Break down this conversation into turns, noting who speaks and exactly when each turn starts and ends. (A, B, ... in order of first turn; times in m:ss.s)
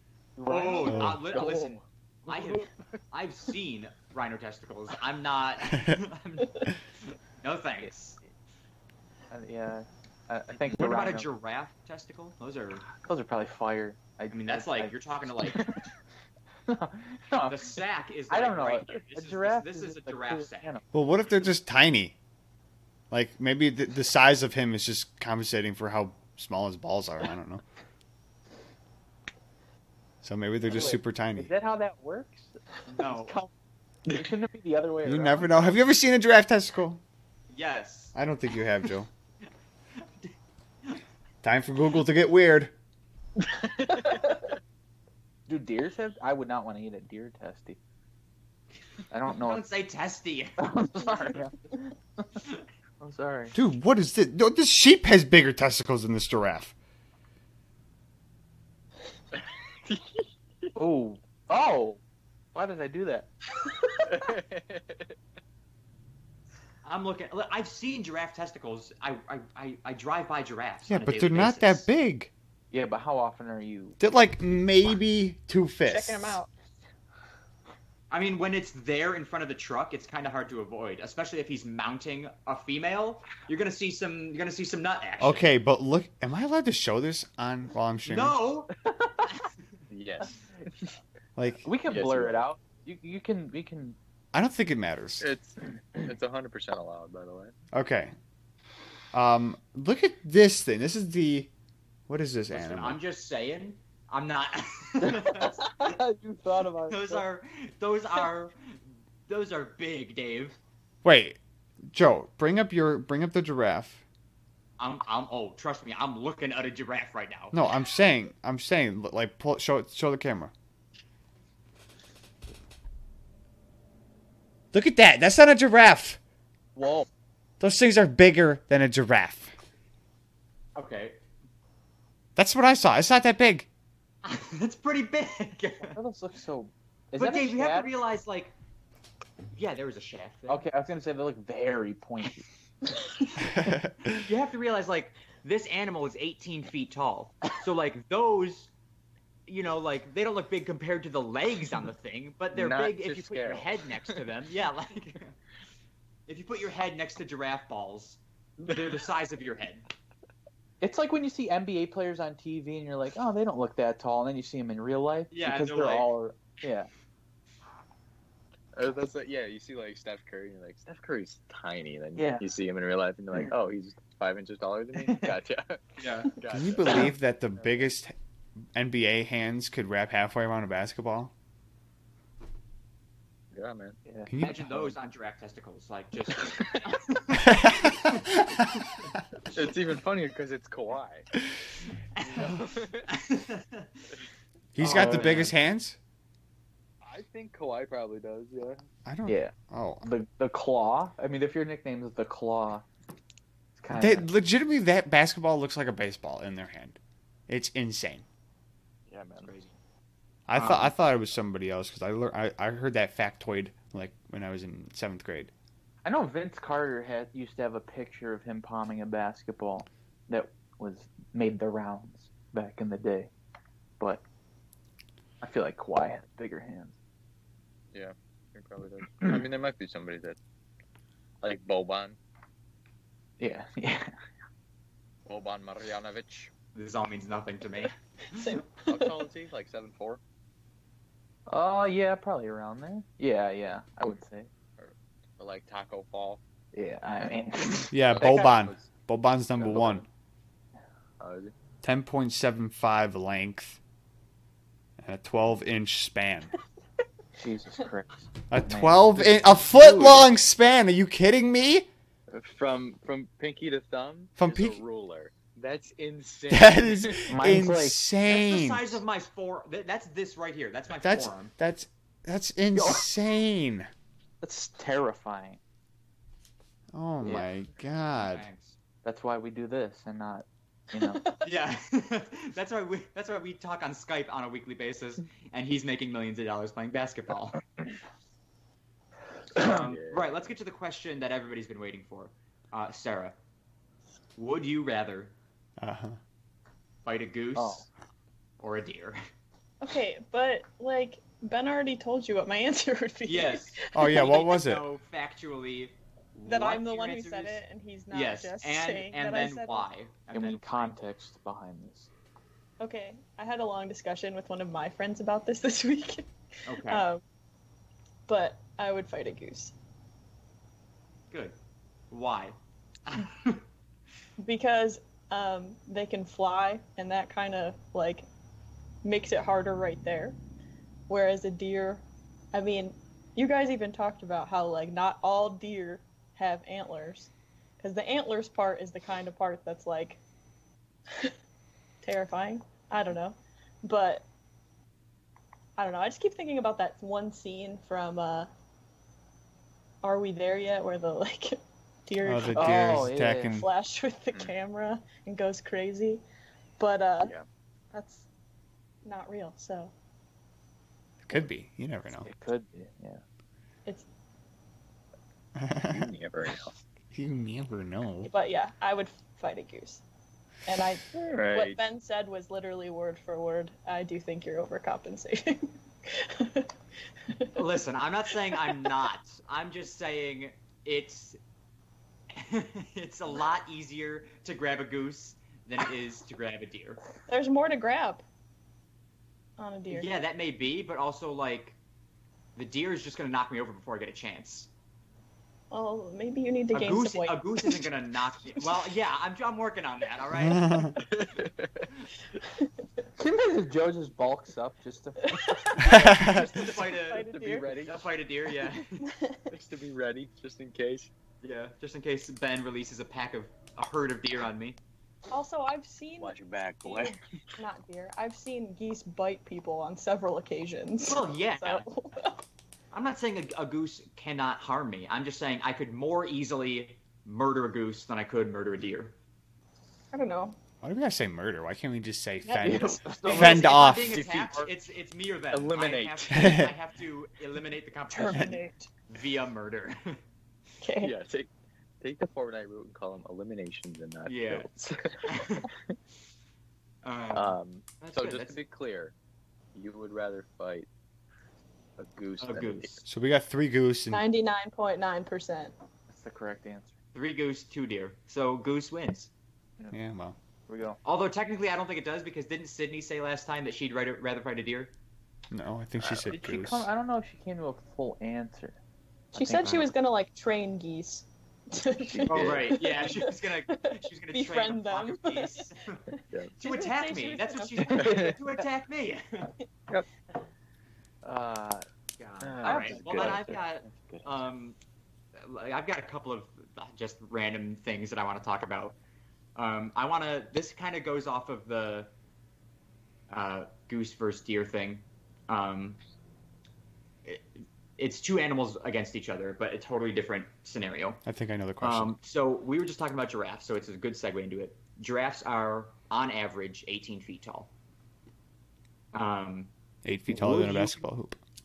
0:00.4-0:02.7 A
0:00.5-0:08.2 B
0:00.8-0:01.2 C
0:01.3-0:01.8 D
0:09.3-0:11.3 A
0:10.6-0:12.9 B
0:13.0-0:15.8 A
0:14.3-0:15.6 B
0:16.7-0:17.7 A
0:17.4-0:20.8 B
0:18.3-0:20.8 A
0:20.9-0:22.2 C
0:23.1-0:27.6 C
0:30.2-0:31.5 C
0:30.6-0:33.5 A
0:32.9-0:33.4 B
0:34.1-0:35.7 A
0:35.0-0:37.0 C
0:37.5-0:38.1 B
0:38.1-0:39.1 C
0:41.4-0:42.7 C
0:43.9-0:44.3 D
0:45.5-0:47.8 A
0:49.1-0:49.6 A
0:49.3-0:50.7 B
0:50.6-0:52.4 A
0:53.0-0:53.6 A
0:53.5-0:56.7 C
0:59.9-1:00.7 D
1:00.8-1:02.0 A
1:02.5-1:03.3 A
1:04.0-1:05.1 D
1:06.8-1:11.9 B
1:10.9-1:12.3 C
1:12.7-1:14.0 A
1:14.0-1:16.4 C
1:15.8-1:16.5 E
1:18.1-1:25.5 B
1:25.2-1:28.4 C
1:28.0-1:28.7 B
1:29.9-1:30.4 D
1:31.4-1:31.7 C
1:31.6-1:34.0 A
1:31.8-1:32.4 D
1:34.3-1:35.3 C
1:35.2-1:37.5 D
1:37.7-1:38.1 C
1:39.1-1:41.5 C
1:42.1-1:43.0 C
1:42.5-1:46.0 B
1:45.0-1:47.2 A
1:46.9-1:48.8 B
1:49.3-1:50.6 B
1:51.0-1:51.4 C
1:51.9-1:54.0 C
1:54.8-1:57.6 B
1:57.5-2:00.5 C
2:04.7-2:06.2 C
2:06.7-2:07.1 A
2:07.6-2:09.5 C
2:10.8-2:11.2 B
2:12.4-2:13.7 C
2:14.2-2:16.0 B
2:15.8-2:17.9 A
2:17.2-2:18.5 B
2:19.5-2:20.6 B
2:20.5-2:22.4 A
2:23.4-2:24.2 C
2:24.0-2:28.7 B
2:29.5-2:35.3 B
2:32.5-2:34.2 D
2:36.3-2:39.8 B
2:40.8-2:46.9 A
2:45.3-2:46.1 B
2:48.7-2:57.9 D
2:52.2-2:52.5 A
2:55.0-2:55.3 A
2:56.0-2:56.3 B
2:56.5-2:58.1 C
2:58.7-3:01.3 C
3:03.5-3:04.0 D
3:04.0-3:04.9 A
3:04.3-3:04.6 C
3:04.4-3:09.1 B
3:07.3-3:08.6 C
3:09.5-3:11.3 D
3:12.2-3:12.5 B
3:12.2-3:13.1 D
3:13.1-3:13.9 B
3:14.7-3:16.0 C
3:14.8-3:15.5 B
3:14.8-3:15.5 A
3:17.0-3:18.8 D
3:19.0-3:20.0 C
3:19.2-3:22.8 A
3:23.8-3:24.3 A
3:23.9-3:28.2 C
3:29.1-3:29.5 D
3:29.4-3:29.8 B
3:30.5-3:35.5 C
3:36.0-3:43.3 A
3:45.4-3:47.0 A
3:47.9-3:50.4 D
3:51.4-3:52.2 D
3:53.4-3:54.1 A
3:55.2-3:56.5 D
3:56.7-3:58.6 B
3:58.3-3:59.2 E
3:58.8-4:00.2 D
4:01.5-4:04.5 A
4:04.8-4:06.4 D
4:06.7-4:08.4 A
4:07.9-4:10.0 C
4:08.1-4:08.9 D
4:09.5-4:10.1 D
4:11.2-4:11.5 D
4:11.8-4:13.8 C
4:15.0-4:16.5 C
4:17.4-4:20.2 A
4:18.5-4:21.9 C
4:22.3-4:27.3 D
4:24.4-4:24.8 C
4:26.5-4:29.0 C
4:27.3-4:28.0 A
4:28.2-4:31.5 B
4:31.0-4:33.9 C
4:32.7-4:33.0 A
4:34.4-4:35.6 A
4:36.9-4:38.5 C
4:37.2-4:37.5 A
4:38.2-4:38.8 B
4:39.0-4:41.2 A
4:41.1-4:41.4 E
4:41.4-4:47.6 B
4:49.5-4:50.5 D
4:49.6-4:53.3 B
4:54.4-4:55.3 B
4:55.8-4:56.2 C
4:57.0-4:57.9 B
4:57.5-4:57.8 A
4:58.6-4:59.2 B
4:59.8-5:04.3 E
5:03.2-5:10.9 B
5:03.9-5:04.8 C
5:06.4-5:09.9 E
5:10.3-5:12.1 A
5:12.8-5:17.2 E
5:16.7-5:17.0 B
5:18.3-5:19.7 E
5:21.3-5:21.6 B
5:22.1-5:23.6 B
5:24.4-5:28.2 E
5:29.0-5:30.4 E
5:31.1-5:32.0 E
5:32.5-5:40.2 E
5:42.0-5:44.2 E
5:45.8-5:48.5 E
5:50.0-5:56.2 E
5:52.2-5:53.7 C
5:52.5-5:53.6 A
5:56.8-5:57.3 E
5:57.9-5:58.3 E
5:59.0-5:59.9 E
6:01.2-6:02.3 C
6:02.1-6:03.2 A
6:05.6-6:06.1 C
6:05.8-6:06.7 D
6:07.1-6:08.3 C
6:08.2-6:10.0 E
6:10.6-6:16.7 E
6:11.1-6:11.8 D
6:17.3-6:17.6 E
6:17.5-6:21.4 B
6:18.6-6:18.9 E
6:22.3-6:27.0 B
6:27.3-6:28.2 E
6:29.6-6:30.1 E
6:29.9-6:31.8 B
6:32.6-6:34.7 B
6:35.7-6:37.9 E
6:36.7-6:40.9 B
6:40.4-6:40.9 C
6:41.0-6:41.9 D
6:42.4-6:42.7 E
6:43.2-6:46.0 A
6:45.2-6:47.8 E
6:45.8-6:46.4 C
6:46.0-6:47.3 B
6:46.1-6:48.1 D
6:47.8-6:49.0 B
6:49.0-6:49.5 E
6:49.5-6:51.1 D
6:51.4-6:54.8 B
6:55.3-7:02.4 E
6:56.2-6:57.2 D
7:01.0-7:01.8 B
7:02.9-7:09.1 B
7:10.1-7:10.6 E
7:10.8-7:14.2 C
7:12.4-7:13.0 E
7:12.6-7:14.3 A
7:13.2-7:14.7 D
7:13.2-7:20.2 B
7:15.5-7:16.6 D
7:16.3-7:16.7 C
7:18.1-7:18.9 E
7:20.8-7:21.1 E
7:21.0-7:21.5 D
7:22.0-7:25.9 D
7:24.2-7:24.7 B
7:25.2-7:25.7 B
7:27.0-7:28.6 B
7:27.3-7:29.1 D
7:29.7-7:30.9 D
7:32.0-7:33.0 D
7:32.4-7:33.0 B
7:33.1-7:34.2 C
7:34.1-7:35.7 E
7:36.1-7:36.9 A
7:37.1-7:39.3 B
7:39.9-7:40.4 C
7:40.7-7:41.0 A
7:41.0-7:44.9 B
7:45.5-7:46.9 C
7:46.1-7:48.8 A
7:49.3-7:58.3 E
7:49.4-7:49.8 A
7:52.0-7:52.7 D
7:52.3-7:56.0 B
7:56.6-7:59.5 B
7:57.9-7:58.3 D
8:01.2-8:01.8 D
8:02.2-8:04.8 B
8:02.4-8:04.3 D
8:02.6-8:03.5 A
8:05.4-8:09.0 B
8:09.5-8:12.1 B
8:13.3-8:16.0 B
8:17.2-8:21.2 B
8:21.2-8:22.1 C
8:21.8-8:27.7 B
8:29.1-8:29.7 B
8:30.0-8:31.4 C
8:30.3-8:31.0 B